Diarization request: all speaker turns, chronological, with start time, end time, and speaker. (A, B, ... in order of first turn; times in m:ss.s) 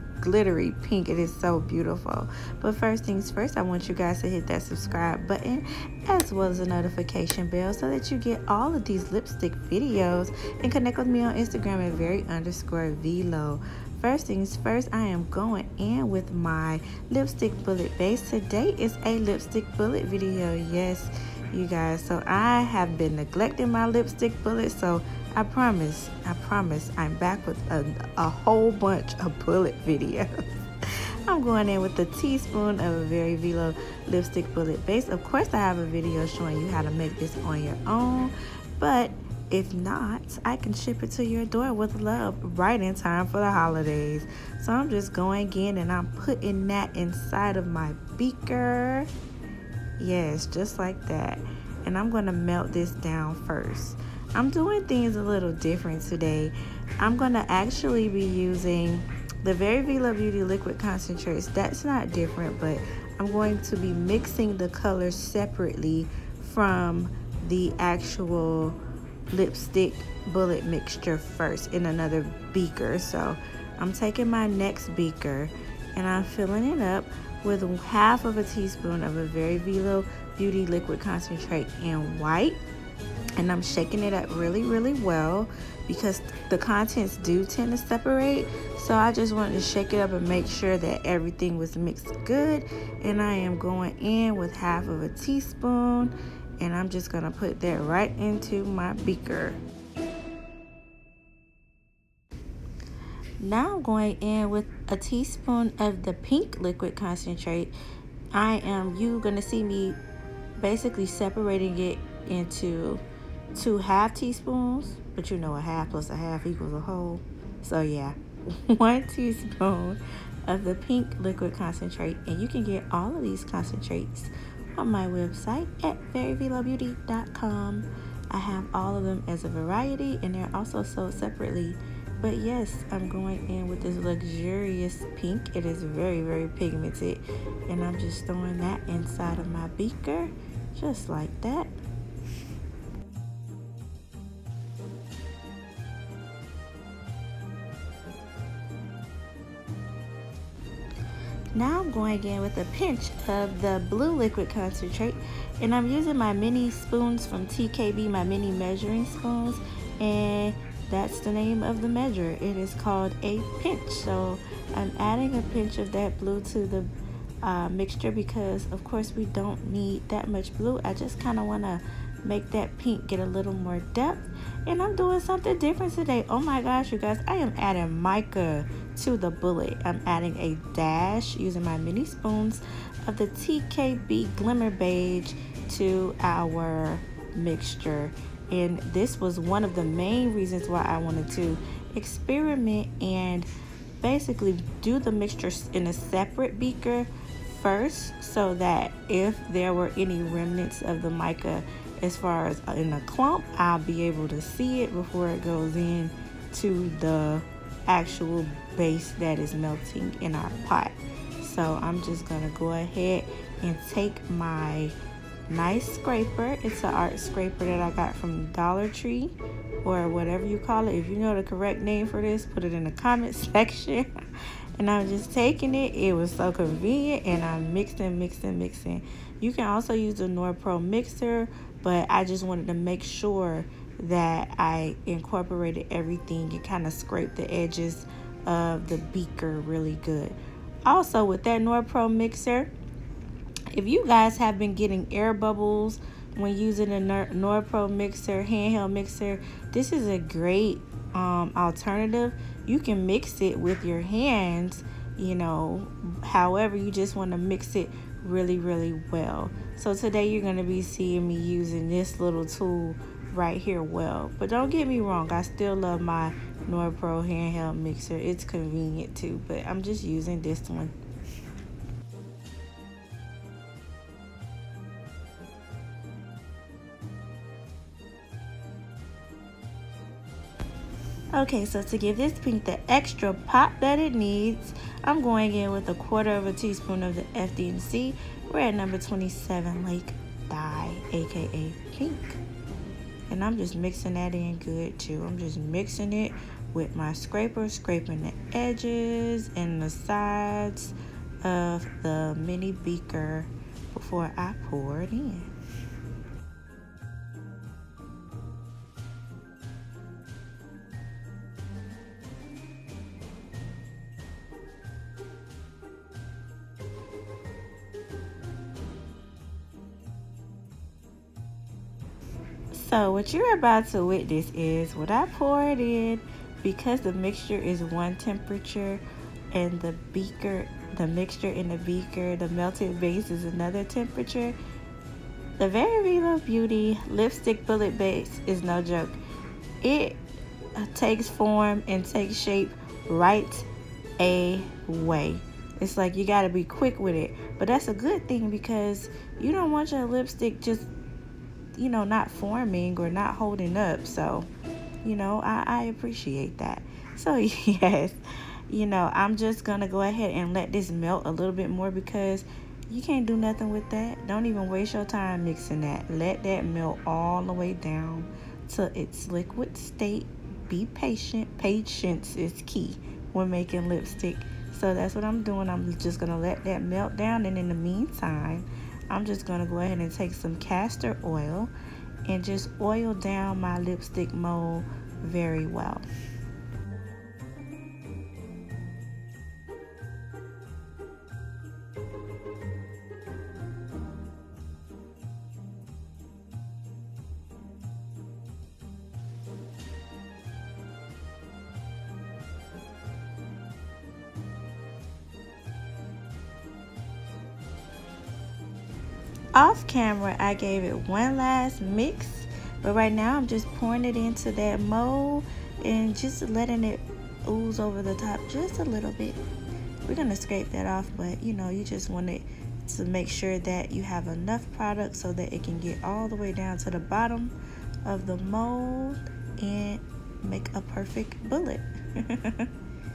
0:00.2-0:30.3 A
0:31.3-0:49.1 A
0:50.0-1:08.8 A
1:09.3-1:22.6 A
1:23.4-1:39.6 A
1:43.4-1:47.8 A
1:48.3-1:50.0 A
1:50.6-1:53.0 A
1:53.6-1:58.2 A
1:58.7-2:21.7 A
2:31.6-2:46.9 A
2:47.4-3:13.5 A
3:14.0-3:35.0 A
3:35.5-3:44.1 A
3:44.8-4:02.7 A
4:03.7-4:30.9 A
4:41.3-4:52.4 A
4:53.3-5:05.5 A
5:22.7-5:34.6 A
5:35.6-5:39.2 A
5:39.8-5:40.2 A
5:40.8-5:43.7 A
5:44.2-5:50.9 A
5:51.8-5:54.5 A
5:55.0-5:58.2 A
5:58.7-6:21.7 A
6:22.3-6:26.1 A
6:49.6-6:59.4 A
7:00.1-7:07.5 A
7:08.0-7:12.7 A